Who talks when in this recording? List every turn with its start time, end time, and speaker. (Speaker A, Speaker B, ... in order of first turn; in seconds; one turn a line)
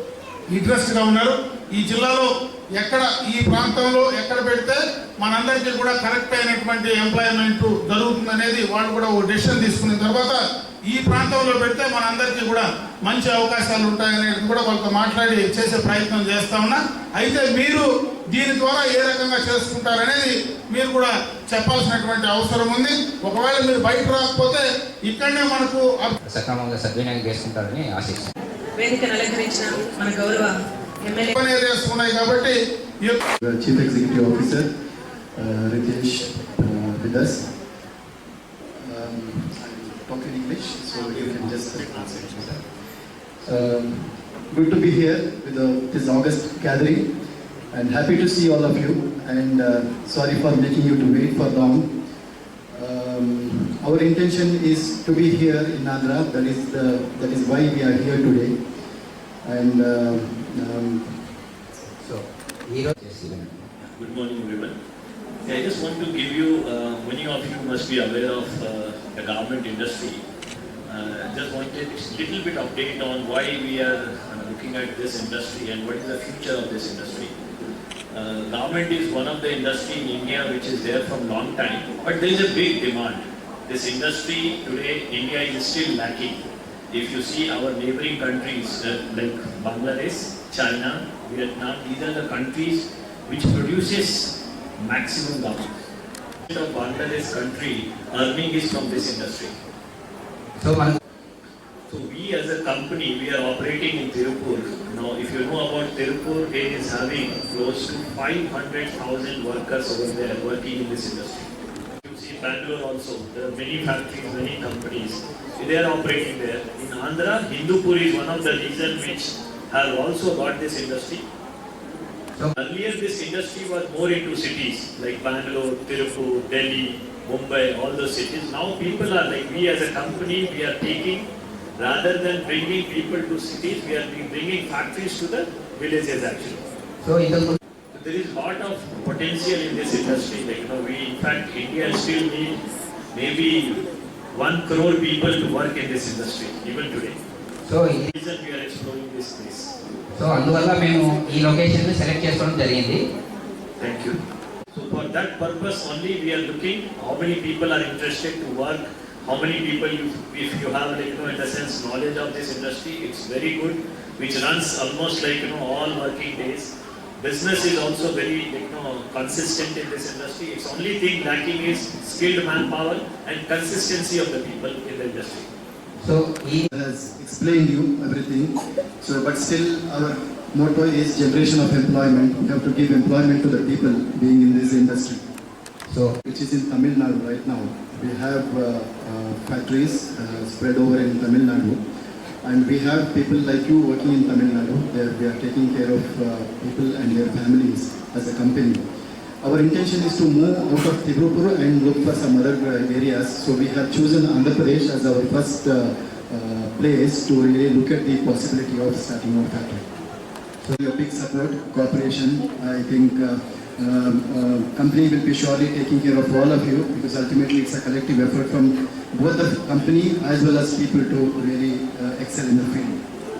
Speaker A: 0.5-26.1
Speaker B: 26.3-28.3
Speaker C: 28.8-31.3
Speaker A: 31.3-33.2
Speaker D: 33.4-34.7
Speaker D: 35.4-37.5
Speaker D: 38.8-42.6
Speaker D: 43.4-47.1
Speaker D: 47.7-51.9
Speaker D: 52.7-58.5
Speaker D: 59.4-61.3
Speaker B: 62.0-63.7
Speaker E: 63.9-64.7
Speaker E: 65.5-70.2
Speaker E: 70.9-77.3
Speaker E: 78.1-95.7
Speaker E: 96.5-99.5
Speaker B: 100.6-100.9
Speaker E: 101.9-111.5
Speaker E: 112.0-121.2
Speaker E: 122.6-131.3
Speaker E: 131.8-136.6
Speaker B: 137.0-137.6
Speaker E: 137.9-142.6
Speaker E: 143.1-143.8
Speaker E: 144.3-147.2
Speaker B: 147.6-148.1
Speaker E: 148.1-149.7
Speaker B: 150.2-153.0
Speaker E: 153.8-154.2
Speaker E: 154.7-175.5
Speaker B: 176.0-176.7
Speaker D: 176.7-185.2
Speaker B: 185.9-186.1
Speaker D: 186.3-191.8
Speaker D: 192.4-198.8
Speaker D: 199.4-209.9
Speaker D: 210.7-223.0